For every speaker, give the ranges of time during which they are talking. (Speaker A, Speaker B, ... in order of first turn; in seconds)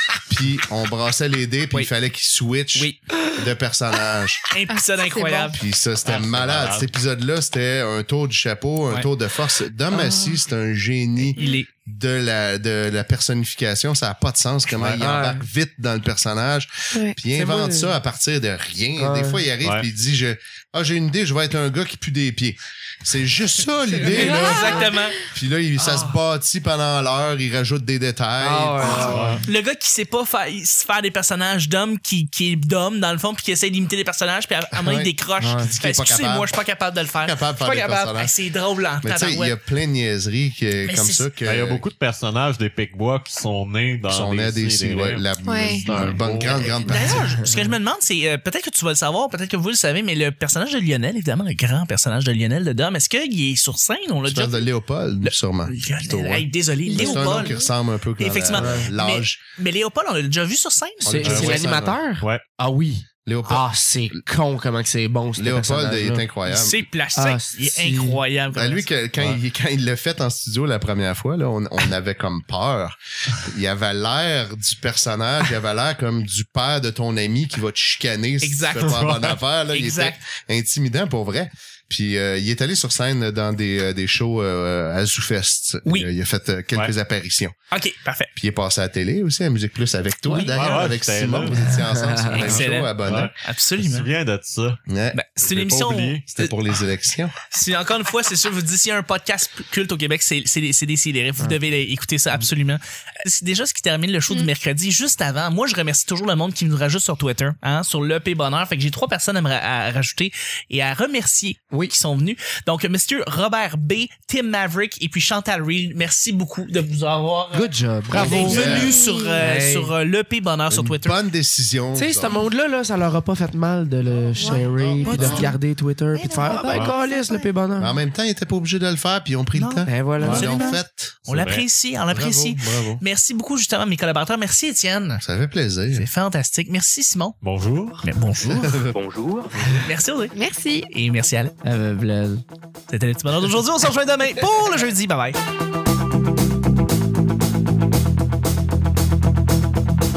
Speaker A: 0.3-4.4, 5.6-29.4, 34.7-36.5, 37.2-38.3, 39.0-41.8, 44.1-47.2, 54.2-59.4, 61.0-62.0, 63.2-63.7, 65.4-66.8, 68.5-87.5, 88.3-93.3, 94.9-95.2, 96.3-97.4, 118.1-119.0, 120.7-122.4, 124.7-125.5, 127.8-131.3, 132.1-133.0, 135.2-136.1, 138.4-139.8
Speaker B: 2.7-3.0, 4.5-5.6, 11.3-11.7, 24.0-25.2, 25.8-26.1, 28.8-39.5, 40.8-41.3, 46.8-54.6, 55.2-57.6, 58.2-61.4, 66.5-68.9, 78.4-79.1, 79.7-80.2, 87.7-88.3, 90.3-90.5, 92.3-94.1, 95.1-96.5, 97.5-121.2, 125.0-125.6, 126.1-127.3, 129.5-135.2, 135.9-137.4, 138.0-138.9, 139.7-140.3, 140.9-141.5, 142.9-145.4
Speaker C: 4.7-5.6, 11.4-11.6, 24.4-25.0, 28.8-29.1, 45.4-45.9, 56.9-57.7, 118.6-119.4, 124.4-125.4, 126.2-127.5, 140.3-140.9
Speaker D: 6.0-6.9, 29.1-29.4, 41.4-45.2, 45.9-47.1, 61.2-61.7, 78.8-79.4, 90.5-91.8, 93.0-94.8, 95.4-96.2, 118.3-118.8, 130.2-130.5, 131.3-131.7, 137.4-138.0
Speaker E: 9.9-10.2, 14.9-15.4, 17.3-17.9, 19.0-19.4, 24.0-24.8, 28.4-29.4, 35.4-35.7, 58.5-58.9, 61.0-66.2, 67.1-68.2, 91.5-92.7, 117.5-119.9, 121.9-127.9, 129.9-130.5, 139.2-139.8, 141.6-142.4